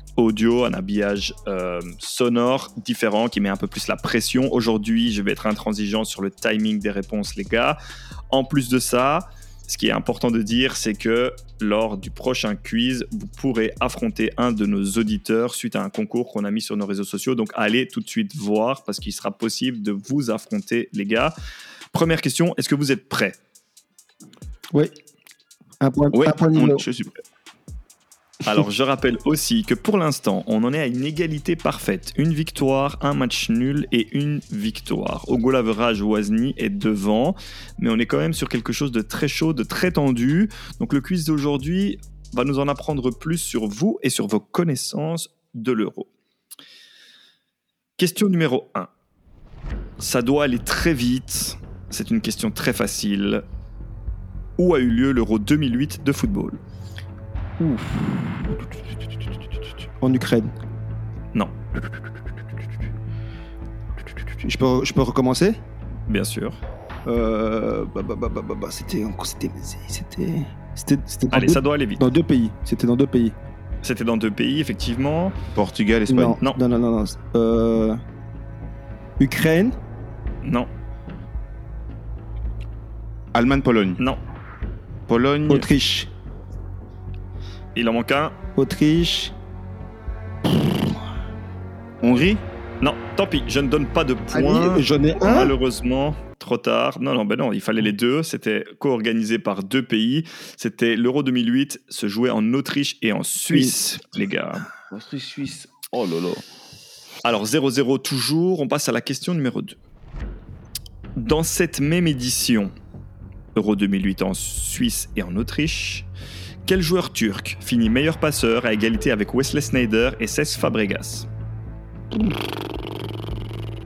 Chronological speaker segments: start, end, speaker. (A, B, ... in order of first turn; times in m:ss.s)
0:00.2-0:07.8 A
0:08.3-0:21.3 A
0:21.9-0:23.4 A
0:25.8-0:26.8 B
0:26.1-0:27.1 C
0:28.4-0:46.1 A
0:48.0-0:48.9 A
0:50.0-0:53.4 A
0:54.6-0:56.6 A
0:57.6-0:58.7 B
1:00.0-1:00.5 B
1:04.4-1:05.6 B
1:06.1-1:06.6 A
1:07.0-1:13.4 B
1:11.3-1:12.0 A
1:13.8-1:15.3 A
1:15.5-1:16.4 C
1:16.1-1:18.0 B
1:19.2-1:19.8 B
1:20.4-1:20.7 A
1:23.3-1:24.0 C
1:25.1-1:25.7 C
1:25.5-1:26.1 B
1:27.7-1:28.3 A
1:28.6-1:29.3 B
1:30.5-1:31.0 B
1:32.0-1:32.4 C
1:32.8-1:44.7 A
1:34.3-1:35.5 B
1:44.9-1:46.4 C
1:47.2-1:49.8 A
1:51.2-1:52.7 A
1:53.5-1:56.1 A
1:56.6-2:01.3 A